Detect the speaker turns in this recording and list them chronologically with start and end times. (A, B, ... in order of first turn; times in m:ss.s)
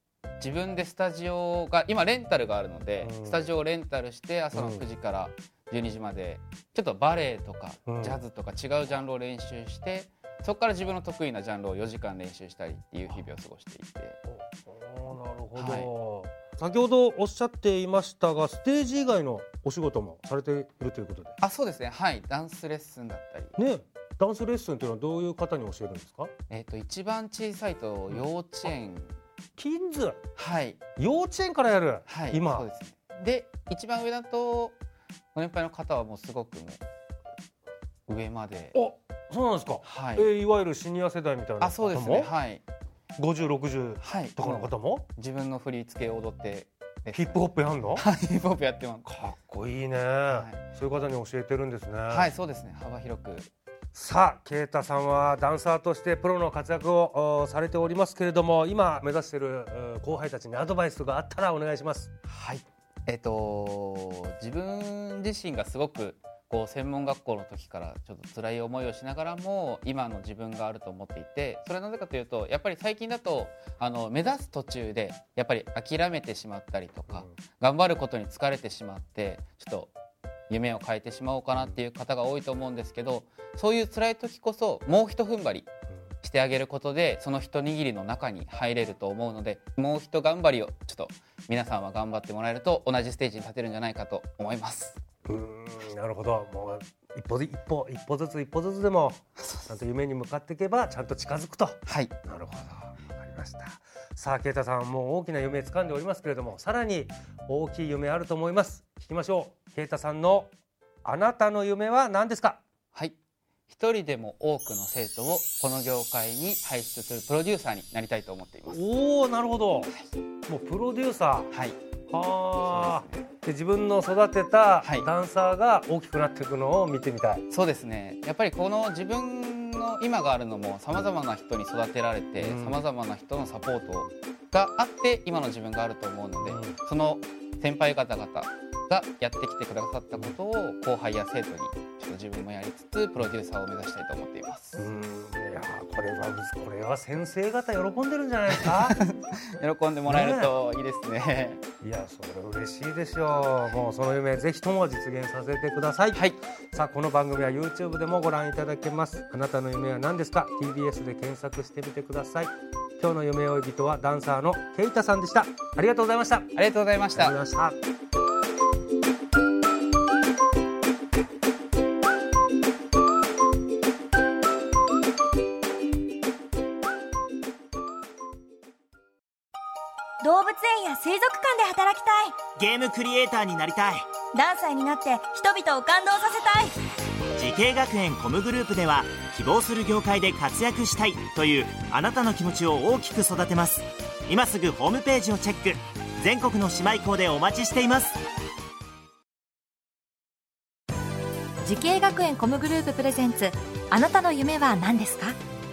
0:00.4-0:14.2 A
0:03.0-0:03.5 B
0:04.5-0:04.8 B
0:07.9-0:08.2 B
0:14.3-0:21.4 B
0:15.6-0:15.9 A
0:21.4-0:23.6 A
0:23.6-0:26.3 B
0:26.5-0:29.1 A
0:29.6-0:30.2 B
0:30.4-0:30.8 A
0:31.0-0:32.7 B
0:32.1-0:34.7 A
0:35.3-0:36.8 A
0:38.1-0:38.8 A
0:38.7-0:42.3 B
0:39.8-0:40.3 A
0:41.6-0:42.6 A
0:43.2-0:45.0 B
0:44.0-0:47.4 A
0:47.1-0:48.0 B
0:47.9-0:49.0 A
0:49.0-0:52.3 B
0:50.3-0:50.6 A
0:52.1-0:53.5 A
0:53.9-1:02.1 B
1:02.2-1:19.9 A
1:20.5-1:25.7 A
1:26.2-1:35.0 A
1:35.2-1:50.5 B
1:39.4-1:39.8 A
1:41.8-1:42.1 A
1:51.0-1:52.6 B
1:53.7-1:58.8 A
1:58.6-1:59.9 B
2:00.5-2:01.5 B
2:01.5-2:01.8 A
2:02.1-2:07.4 B
2:02.6-2:03.2 A
2:04.8-2:05.1 A
2:07.5-2:24.9 A
2:12.4-2:12.8 B
2:16.4-2:16.8 B
2:24.8-2:29.0 B
2:28.5-2:31.6 A
2:30.1-2:30.5 B
2:31.8-2:46.5 B
2:36.1-2:36.4 A
2:46.5-2:47.4 A
2:47.1-2:47.8 B
3:00.2-3:02.4 C
3:02.4-3:04.1 D
3:04.3-3:06.8 C
3:07.3-3:18.2 D
3:21.6-3:25.4 E